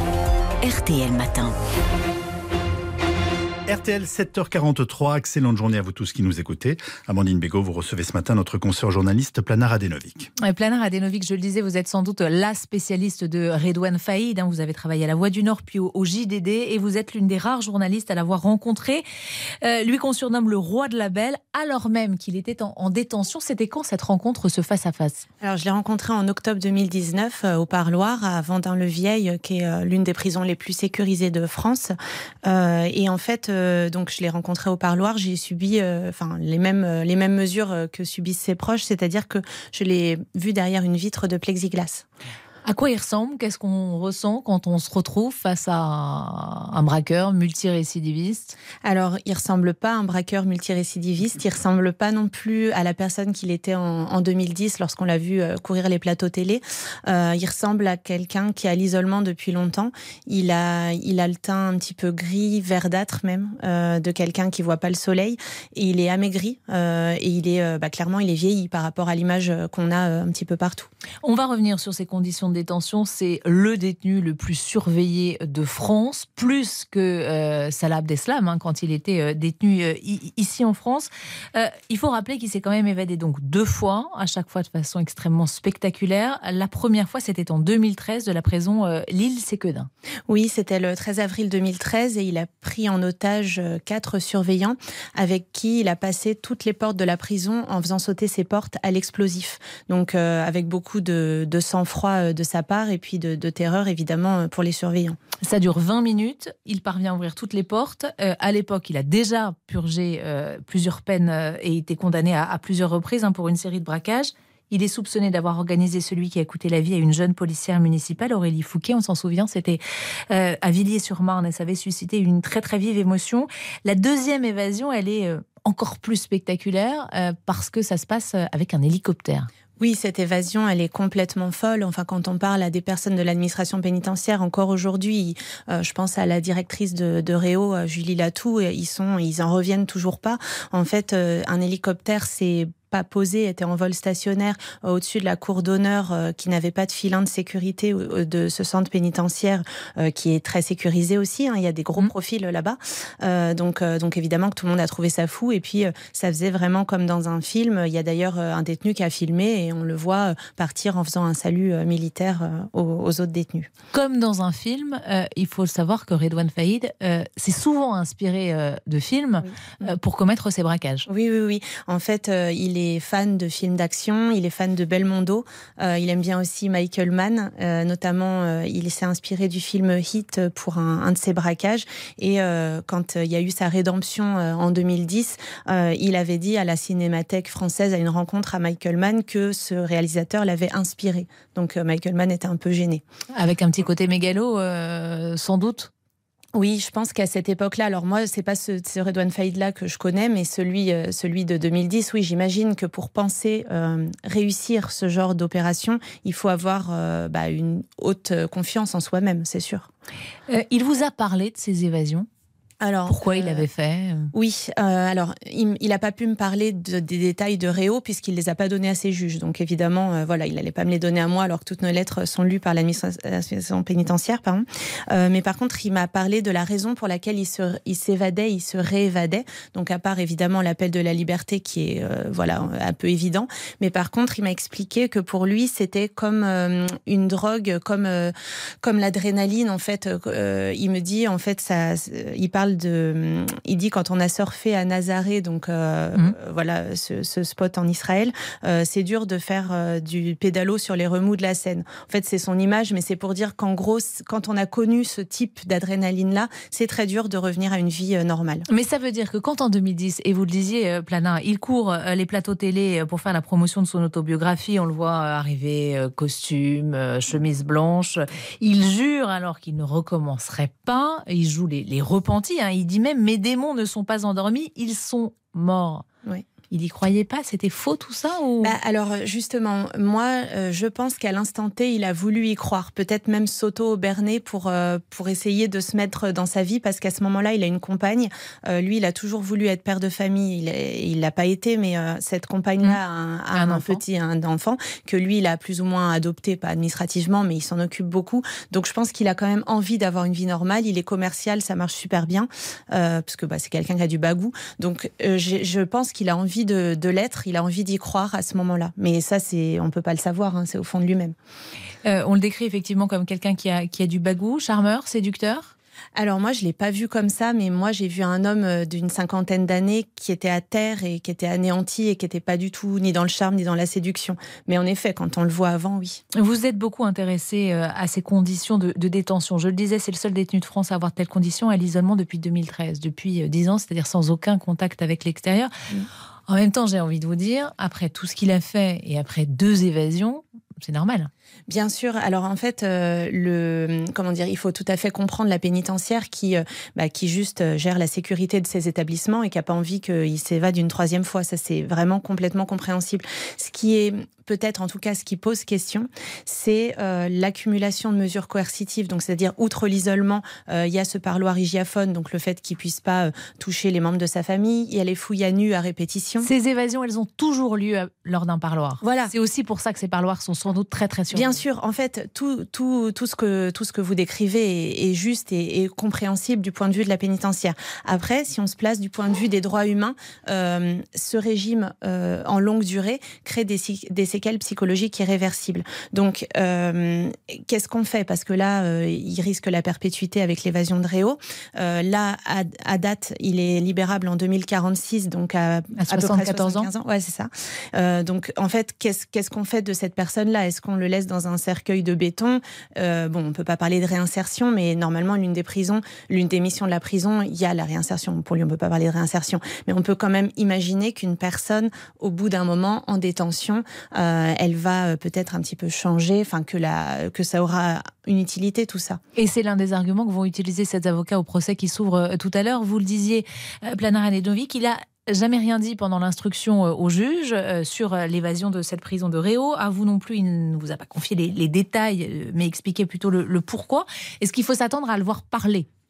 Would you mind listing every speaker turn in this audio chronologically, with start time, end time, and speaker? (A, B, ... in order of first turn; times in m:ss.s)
0:00.6-0:01.6 A
0:03.7-0:10.3 B
0:10.4-0:19.0 A
0:19.6-0:25.3 A
0:25.4-0:42.0 C
0:42.6-0:48.6 A
0:48.8-1:10.9 C
1:11.2-1:29.9 A
1:30.3-1:45.2 C
1:45.4-2:09.5 A
2:09.8-2:43.7 C
2:43.9-2:51.1 A
2:51.1-3:13.0 C
3:13.3-3:15.9 A
3:16.6-3:29.9 C
3:30.5-3:32.3 A
3:32.8-3:33.7 C
3:33.1-3:34.3 A
3:34.3-4:18.6 C
4:18.7-4:36.1 A
4:36.7-4:38.8 A
4:38.6-5:11.3 C
4:53.5-4:54.0 A
5:12.0-5:15.7 A
5:16.2-5:26.2 C
5:26.3-5:35.7 A
5:36.5-5:41.3 A
5:41.7-6:06.5 C
6:06.4-6:11.6 A
6:09.0-6:09.3 C
6:11.3-6:59.2 C
6:36.0-6:36.9 A
6:59.4-7:15.9 A